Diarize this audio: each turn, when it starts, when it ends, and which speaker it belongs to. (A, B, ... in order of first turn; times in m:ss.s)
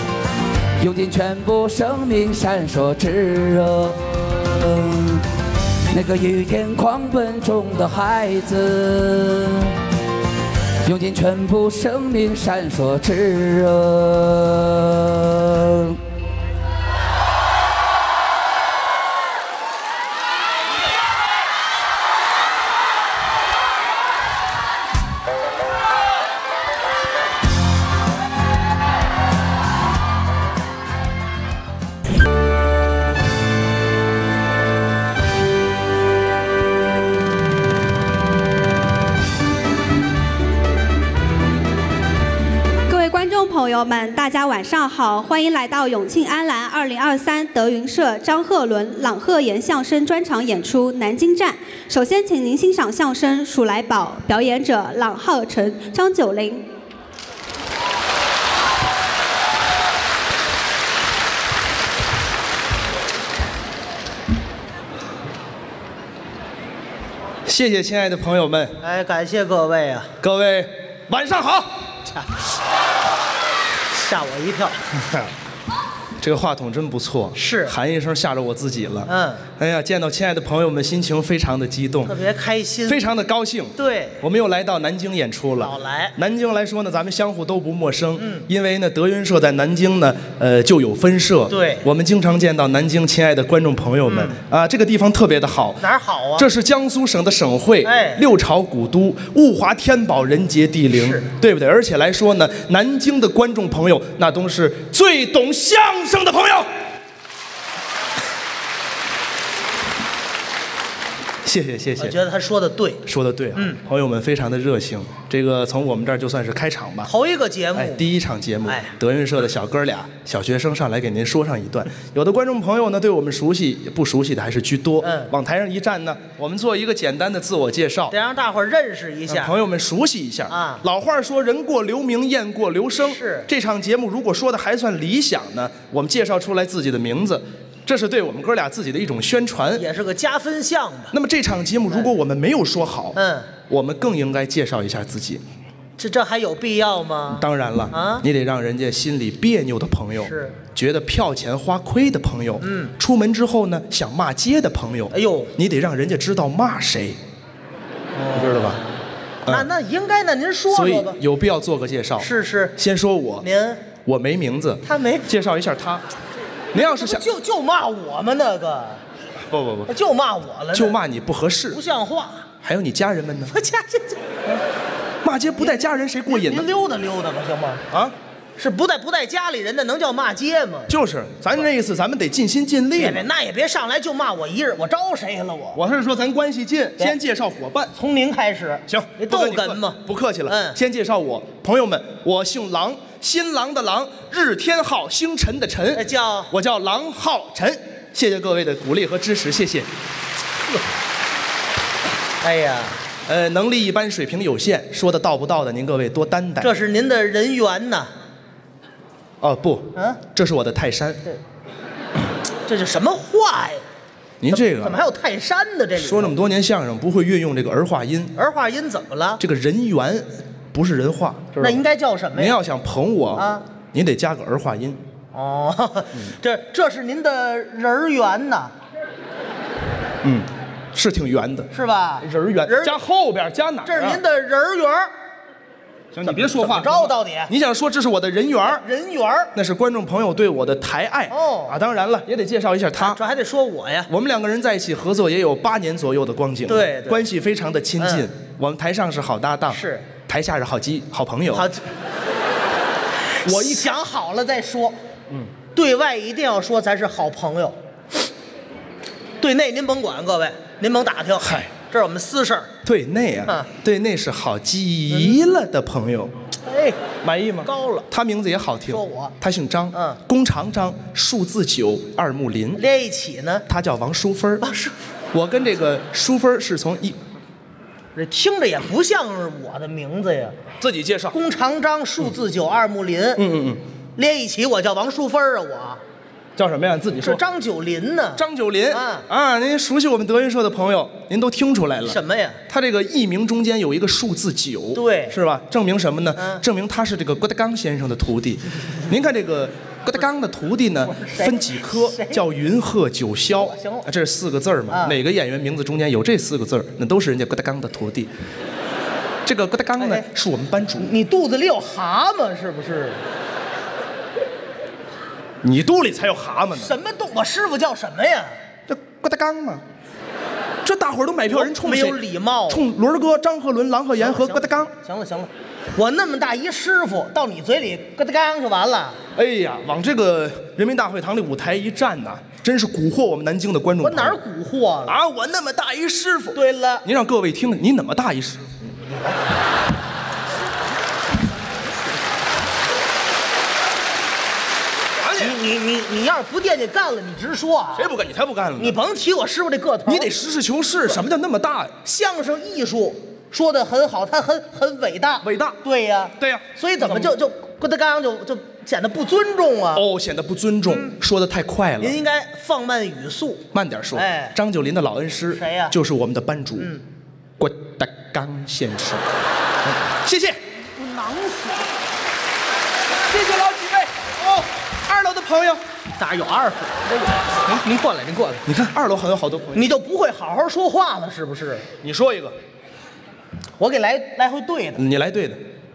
0:00.8-0:05.2 A
0:05.9-0:09.7 A
0:10.8-0:16.0 A
0:42.9-0:56.7 B
1:07.5-1:08.7 C
1:08.8-1:10.1 D
1:10.2-1:11.7 C
1:14.0-1:14.8 D
1:16.2-1:22.2 C
1:17.4-1:17.7 D
1:19.1-1:19.4 D
1:22.0-1:23.1 D
1:22.9-1:35.8 C
1:23.8-1:24.2 D
1:25.6-1:26.2 D
1:28.2-1:28.4 D
1:31.5-1:31.9 D
1:34.1-1:34.4 D
1:35.8-1:36.5 D
1:36.4-1:46.7 C
1:37.8-1:38.2 D
1:40.9-1:41.3 D
1:51.4-1:52.2 C
1:52.0-1:53.0 D
1:53.1-1:57.1 C
1:53.6-1:53.8 D
1:57.0-1:58.1 D
1:57.8-2:08.1 C
1:58.6-1:58.9 D
2:05.0-2:05.3 D
2:08.1-2:09.6 D
2:09.3-2:19.8 C
2:10.5-2:10.8 D
2:13.0-2:13.5 D
2:19.7-2:21.2 D
2:21.1-2:25.4 C
2:23.2-2:23.6 D
2:26.0-2:28.3 D
2:27.4-2:37.2 C
2:30.2-2:30.6 D
2:32.6-2:32.9 D
2:35.1-2:35.5 D
2:38.2-2:38.8 D
2:38.3-2:38.8 C
2:39.5-2:41.2 D
2:40.7-2:43.5 C
2:42.2-2:42.7 D
2:43.4-2:43.9 D
2:44.0-2:46.0 C
2:44.8-2:45.3 D
2:46.7-2:49.0 D
2:46.7-2:47.3 C
2:49.5-2:49.9 C
2:49.9-2:51.0 D
2:50.7-2:51.8 C
2:51.7-2:52.5 D
2:52.6-2:53.5 C
2:53.5-2:54.6 D
2:55.2-2:56.7 C
2:55.6-2:57.8 D
2:58.6-3:00.9 D
3:00.9-3:03.2 C
3:03.0-3:05.8 D
3:05.7-3:07.9 C
3:07.9-3:10.8 D
3:08.9-3:19.9 C
3:15.9-3:16.5 D
3:22.4-3:23.0 D
3:23.3-3:26.7 C
3:26.6-3:28.1 D
3:29.4-3:31.2 C
3:29.9-3:30.2 D
3:32.7-3:33.8 D
3:34.4-3:35.0 C
3:34.4-3:36.4 D
3:36.0-3:38.3 C
3:38.4-3:39.4 D
3:39.4-3:41.8 C
3:41.6-3:42.6 D
3:42.4-3:45.0 C
3:43.4-3:43.7 D
3:45.3-3:48.7 D
3:50.2-3:54.2 C
3:51.7-3:53.0 D
3:53.8-3:55.2 D
3:56.1-3:58.8 C
3:56.2-3:57.5 D
3:58.6-3:59.5 D
3:59.6-4:03.2 C
4:01.3-4:01.8 D
4:03.0-4:04.1 D
4:04.1-4:11.7 C
4:06.7-4:07.3 D
4:08.0-4:08.3 D
4:09.7-4:10.1 D
4:11.5-4:11.8 D
4:13.4-4:15.0 D
4:15.3-4:15.6 C
4:15.6-4:17.8 D
4:19.4-4:22.7 D
4:21.4-4:21.7 C
4:22.8-4:26.4 C
4:23.5-4:23.7 D
4:25.1-4:25.4 D
4:26.6-4:27.0 D
4:27.2-4:32.8 C
4:27.6-4:28.1 D
4:28.9-4:29.4 D
4:29.9-4:30.2 D
4:32.7-4:33.6 D
4:33.7-4:34.6 C
4:34.6-4:34.9 D
4:35.3-4:37.2 C
4:38.2-4:40.6 D
4:40.8-4:41.4 C
4:41.3-4:43.4 D
4:43.4-4:43.8 C
4:44.2-4:46.0 D
4:46.6-4:47.4 C
4:47.2-4:49.2 D
4:48.4-4:52.2 C
4:52.0-4:52.6 D
4:52.7-5:08.3 C
4:54.9-4:55.4 D
4:56.4-4:56.6 D
5:01.0-5:02.4 D
5:03.5-5:04.1 D
5:04.9-5:05.2 D
5:09.4-5:11.1 C
5:10.0-5:10.3 D
5:11.0-5:13.2 D
5:15.6-5:16.9 C
5:16.7-5:18.6 D
5:18.9-5:19.8 C
5:20.8-5:22.2 C
5:21.5-5:22.8 D
5:22.7-5:24.9 C
5:24.2-5:29.2 D
5:29.4-5:34.4 C
5:34.0-5:35.2 D
5:35.1-5:38.9 C
5:36.5-5:37.1 D
5:45.2-5:45.6 C
5:45.4-5:48.1 D
5:48.0-5:49.0 C
5:48.8-5:50.3 D
5:50.1-5:52.0 C
5:52.0-6:00.1 D
5:55.4-5:55.8 C
5:56.4-5:57.3 C
6:00.0-6:02.2 C
6:00.9-6:01.1 D
6:02.0-6:04.6 D
6:03.7-6:06.9 C
6:05.5-6:06.0 D
6:07.6-6:09.2 C
6:09.9-6:10.6 C
6:11.0-6:11.8 D
6:13.3-6:15.8 C
6:16.2-6:18.7 D
6:18.7-6:19.9 C
6:19.7-6:21.9 D
6:22.0-6:22.6 C
6:23.8-6:25.0 D
6:25.0-6:25.6 C